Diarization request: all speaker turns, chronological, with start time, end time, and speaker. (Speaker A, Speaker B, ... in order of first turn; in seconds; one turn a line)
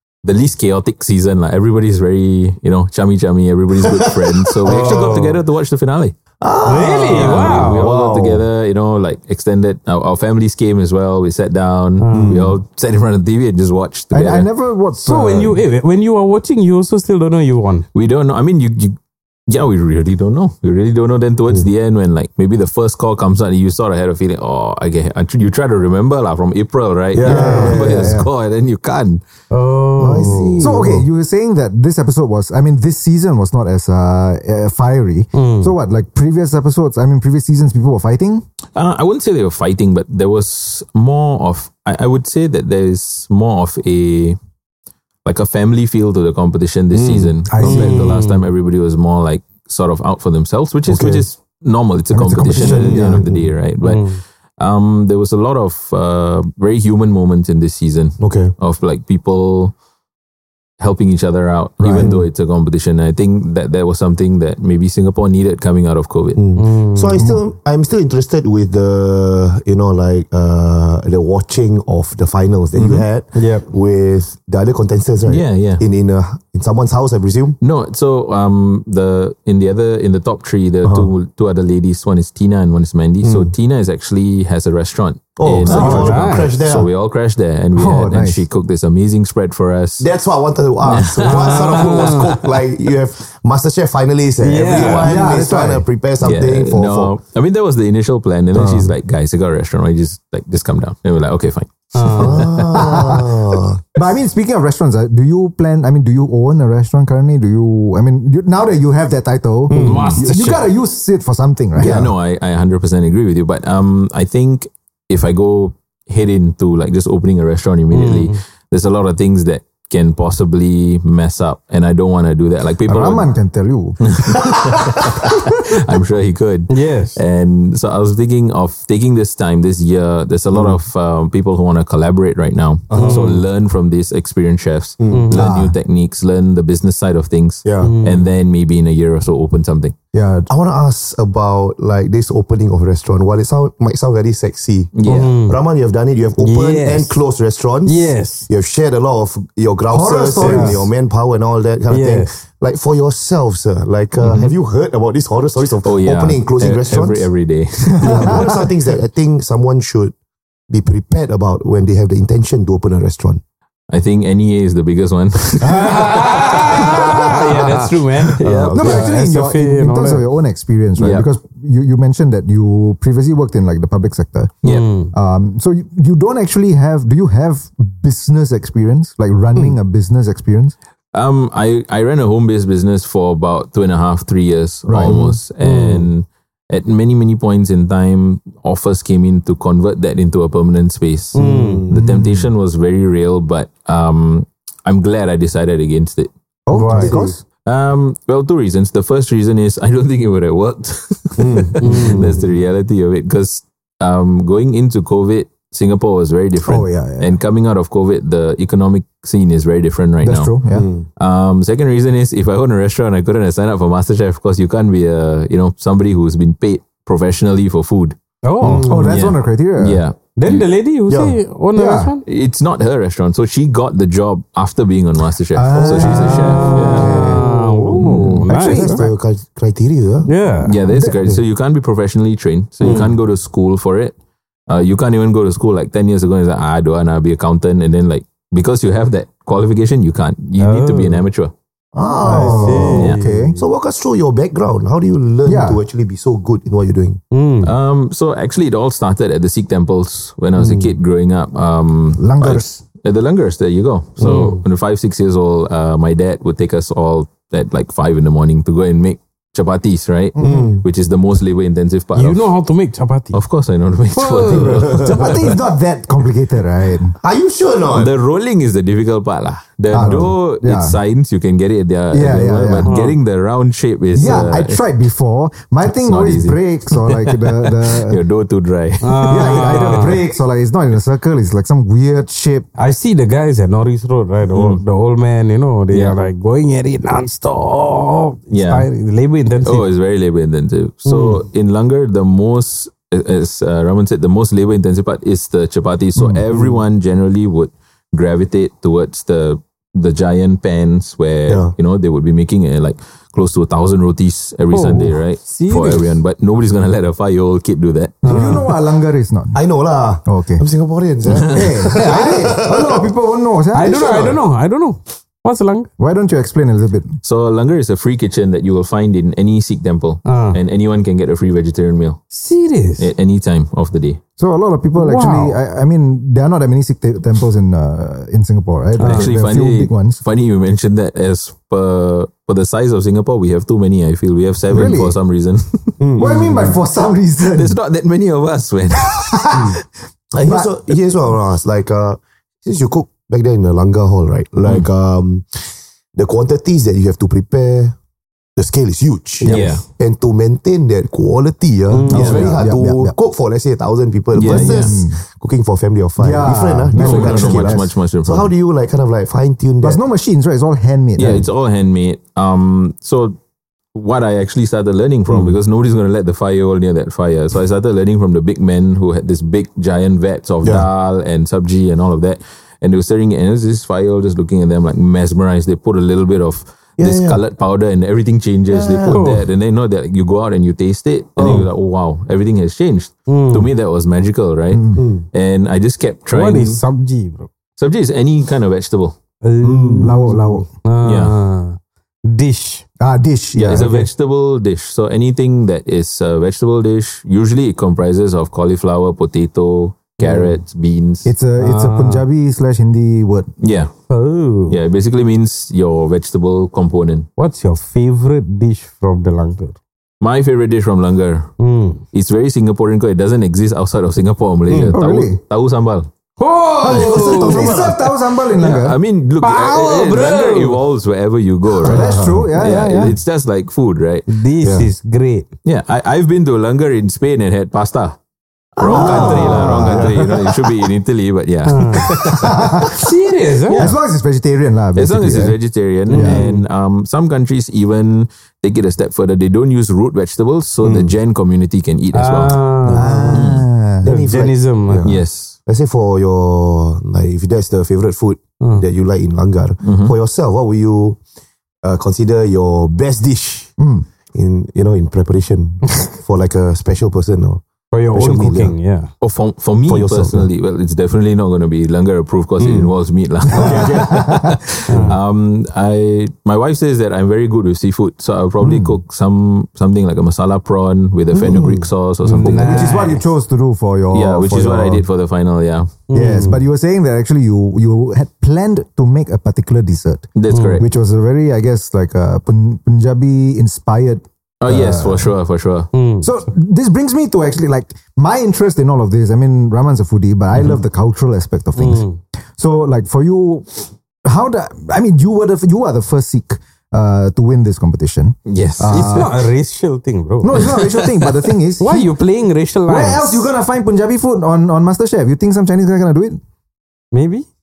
Speaker A: 0.2-6.2
Speaker B: 3.9-5.2
Speaker C: 4.7-5.4
Speaker B: 6.4-8.4
Speaker C: 6.7-7.9
Speaker A: 7.1-14.5
Speaker C: 12.0-12.3
Speaker B: 12.1-12.6
Speaker D: 14.1-15.6
Speaker C: 15.0-17.9
Speaker A: 17.9-29.2
Speaker C: 27.2-27.8
Speaker B: 27.2-28.2
Speaker D: 27.2-28.3
Speaker C: 29.5-30.6
Speaker B: 30.0-31.1
Speaker D: 30.6-38.5
Speaker C: 35.4-35.8
Speaker A: 38.8-44.4
Speaker A: 45.2-59.7
Speaker B: 46.9-47.4
Speaker D: 47.5-48.1
Speaker C: 47.6-48.4
Speaker B: 50.9-51.2
Speaker D: 52.1-53.3
Speaker B: 52.5-53.5
Speaker C: 53.8-54.2
Speaker B: 58.2-58.5
Speaker A: 60.8-66.4
Speaker D: 61.8-62.1
Speaker B: 61.9-62.3
Speaker B: 66.4-77.6
Speaker C: 66.6-67.2
Speaker C: 72.8-73.7
Speaker A: 75.3-75.8
Speaker A: 77.6-90.1
Speaker B: 80.8-81.1
Speaker B: 83.2-83.5
Speaker B: 85.4-86.9
Speaker C: 85.7-86.5
Speaker D: 85.8-86.1
Speaker D: 87.8-88.4
Speaker B: 90.0-97.2
Speaker A: 90.8-92.2
Speaker C: 91.2-92.4
Speaker C: 94.4-95.2
Speaker A: 94.7-95.1
Speaker D: 95.0-95.9
Speaker A: 96.2-102.8
Speaker B: 98.5-98.9
Speaker C: 101.9-102.3
Speaker B: 102.1-103.8
Speaker D: 102.7-103.4
Speaker D: 104.0-112.1
Speaker C: 109.7-110.6
Speaker B: 109.8-110.5
Speaker B: 111.8-112.1
Speaker A: 111.8-123.3
Speaker C: 117.9-118.4
Speaker D: 122.9-125.4
Speaker A: 124.1-139.9
Speaker C: 126.7-127.2
Speaker B: 130.5-130.8
Speaker B: 132.9-133.3
Speaker C: 132.9-133.4
Speaker B: 135.0-135.3
Speaker C: 135.1-135.5
Speaker D: 135.3-135.8
Speaker B: 137.6-137.9
Speaker C: 137.8-138.3
Speaker D: 140.1-140.5
Speaker B: 140.5-157.3
Speaker A: 144.9-145.3
Speaker C: 145.1-145.6
Speaker C: 146.4-147.2
Speaker C: 147.9-148.5
Speaker D: 149.9-150.9
Speaker C: 150.4-150.8
Speaker C: 151.9-152.3
Speaker A: 154.2-154.5
Speaker A: 155.8-158.6
Speaker D: 158.0-158.5
Speaker B: 158.0-160.1
Speaker B: 160.7-163.4
Speaker A: 163.9-167.0
Speaker C: 165.6-170.2
Speaker B: 165.8-166.3
Speaker B: 166.9-169.0
Speaker A: 168.4-169.0
Speaker D: 168.7-174.5
Speaker A: 171.0-171.3
Speaker A: 174.6-174.9
Speaker C: 174.6-175.1
Speaker D: 175.1-180.8
Speaker A: 181.1-196.3
Speaker D: 184.9-185.2
Speaker C: 185.1-186.1
Speaker C: 191.3-191.8
Speaker B: 191.4-192.1
Speaker D: 191.9-192.5
Speaker D: 196.7-197.4
Speaker C: 196.7-197.2
Speaker A: 197.7-210.5
Speaker B: 201.4-202.4
Speaker C: 201.8-202.3
Speaker D: 206.6-207.4
Speaker D: 210.2-210.9
Speaker B: 210.7-211.1
Speaker A: 211.2-218.2
Speaker C: 218.4-218.9
Speaker B: 218.6-219.2
Speaker D: 218.8-220.0
Speaker A: 218.9-220.7
Speaker C: 220.4-222.2
Speaker B: 221.1-221.4
Speaker D: 221.8-222.1
Speaker A: 222.3-227.4
Speaker D: 225.5-227.5
Speaker B: 225.8-228.0
Speaker C: 226.0-229.0
Speaker A: 228.0-228.5
Speaker D: 228.5-229.2
Speaker B: 228.7-230.3
Speaker C: 230.3-230.7
Speaker A: 230.6-234.2
Speaker D: 230.9-231.2
Speaker C: 232.8-233.1
Speaker A: 234.7-241.5
Speaker C: 240.6-241.2
Speaker B: 241.9-247.2
Speaker D: 242.2-243.6
Speaker C: 242.3-243.5
Speaker D: 245.4-245.8
Speaker C: 247.3-247.7
Speaker A: 247.6-262.5
Speaker B: 250.6-250.8
Speaker D: 252.2-252.8
Speaker C: 254.2-254.6
Speaker D: 260.4-260.7
Speaker B: 260.4-260.8
Speaker C: 262.1-263.4
Speaker A: 263.3-265.6
Speaker C: 264.1-265.2
Speaker B: 264.7-265.1
Speaker D: 265.1-267.2
Speaker B: 267.2-268.1
Speaker A: 267.9-274.8
Speaker D: 269.9-271.0
Speaker D: 272.1-272.9
Speaker C: 272.9-273.2
Speaker D: 274.1-278.2
Speaker A: 275.9-280.1
Speaker C: 279.0-280.2
Speaker D: 279.2-282.7
Speaker C: 282.8-289.9
Speaker A: 284.5-284.8
Speaker A: 285.9-286.3
Speaker A: 288.5-288.9
Speaker A: 289.6-308.2
Speaker C: 291.1-291.4
Speaker B: 301.5-301.7
Speaker C: 304.7-306.1
Speaker C: 308.2-308.7
Speaker D: 308.2-309.6
Speaker B: 309.5-313.1
Speaker D: 310.2-310.6
Speaker D: 311.4-314.4
Speaker C: 312.0-312.3
Speaker C: 313.7-315.9
Speaker B: 313.9-314.4
Speaker D: 316.0-317.2
Speaker A: 317.2-322.2
Speaker C: 320.2-320.6
Speaker C: 322.3-323.1
Speaker A: 323.0-324.2
Speaker D: 324.4-330.2
Speaker C: 325.0-325.6
Speaker C: 329.0-329.3
Speaker A: 329.0-336.0
Speaker D: 334.7-335.2
Speaker B: 336.0-336.8
Speaker D: 336.2-337.8
Speaker A: 337.4-339.6
Speaker D: 339.0-339.8
Speaker B: 340.3-347.9
Speaker D: 340.4-340.7
Speaker B: 348.6-360.0
Speaker D: 349.4-349.8
Speaker A: 349.4-349.8
Speaker C: 351.9-352.5
Speaker D: 352.1-353.1
Speaker A: 352.1-352.5
Speaker A: 354.3-354.9
Speaker D: 354.4-355.2
Speaker D: 356.2-357.9
Speaker A: 356.9-358.5
Speaker D: 359.8-361.5
Speaker A: 361.2-363.4
Speaker A: 363.9-386.8
Speaker B: 377.0-377.4
Speaker B: 378.7-379.3
Speaker C: 379.1-379.4
Speaker B: 381.4-381.6
Speaker C: 381.4-381.7
Speaker C: 383.3-383.7
Speaker D: 384.7-385.0
Speaker B: 384.9-385.2
Speaker C: 386.3-387.5
Speaker A: 387.8-389.2
Speaker C: 389.4-392.9
Speaker B: 389.6-390.4
Speaker D: 390.0-390.7
Speaker A: 391.0-391.4
Speaker D: 393.0-393.9
Speaker A: 393.6-401.3
Speaker C: 393.7-394.1
Speaker D: 401.2-403.5
Speaker C: 401.6-402.2
Speaker A: 403.6-403.9
Speaker C: 404.1-404.8
Speaker A: 404.7-407.3
Speaker C: 407.4-409.8
Speaker A: 410.2-411.5
Speaker C: 411.6-412.0
Speaker A: 412.1-416.1
Speaker C: 414.7-414.9
Speaker D: 414.9-415.4
Speaker C: 416.4-417.8
Speaker B: 416.8-418.0
Speaker D: 416.9-419.0
Speaker A: 418.6-424.3
Speaker C: 419.4-420.8
Speaker D: 421.8-423.2
Speaker C: 421.9-422.4
Speaker C: 424.3-425.5
Speaker A: 425.6-428.2
Speaker A: 428.8-432.9
Speaker B: 428.8-430.6
Speaker D: 428.8-430.3
Speaker C: 429.0-429.7
Speaker C: 431.7-432.1
Speaker D: 432.1-433.0
Speaker C: 432.9-433.8
Speaker A: 433.7-434.0
Speaker D: 433.7-436.4
Speaker A: 434.9-442.7
Speaker C: 436.1-436.6
Speaker B: 440.8-441.1
Speaker C: 442.1-443.5
Speaker B: 442.9-443.5
Speaker D: 442.9-444.1
Speaker A: 443.3-443.6
Speaker B: 444.0-451.2
Speaker C: 444.0-445.1
Speaker A: 445.0-445.6
Speaker C: 448.6-448.9
Speaker A: 449.8-450.1
Speaker B: 451.8-453.7
Speaker D: 453.8-454.1
Speaker B: 454.3-458.8
Speaker C: 457.9-459.1
Speaker A: 459.2-473.0
Speaker B: 459.9-460.5
Speaker C: 462.6-462.9
Speaker D: 463.5-464.6
Speaker B: 463.6-463.9
Speaker C: 464.9-465.2
Speaker B: 471.3-471.9
Speaker C: 472.2-473.2
Speaker D: 472.5-475.1
Speaker A: 474.1-475.9
Speaker C: 476.1-476.6
Speaker D: 476.1-485.3
Speaker A: 480.4-480.9
Speaker C: 480.5-480.8
Speaker A: 484.6-485.9
Speaker C: 485.9-486.3
Speaker D: 486.2-492.1
Speaker C: 491.8-492.2
Speaker D: 492.6-499.4
Speaker A: 498.5-499.3
Speaker C: 498.9-500.6
Speaker D: 500.4-502.1
Speaker C: 501.8-503.5
Speaker D: 502.9-506.4
Speaker C: 507.1-507.5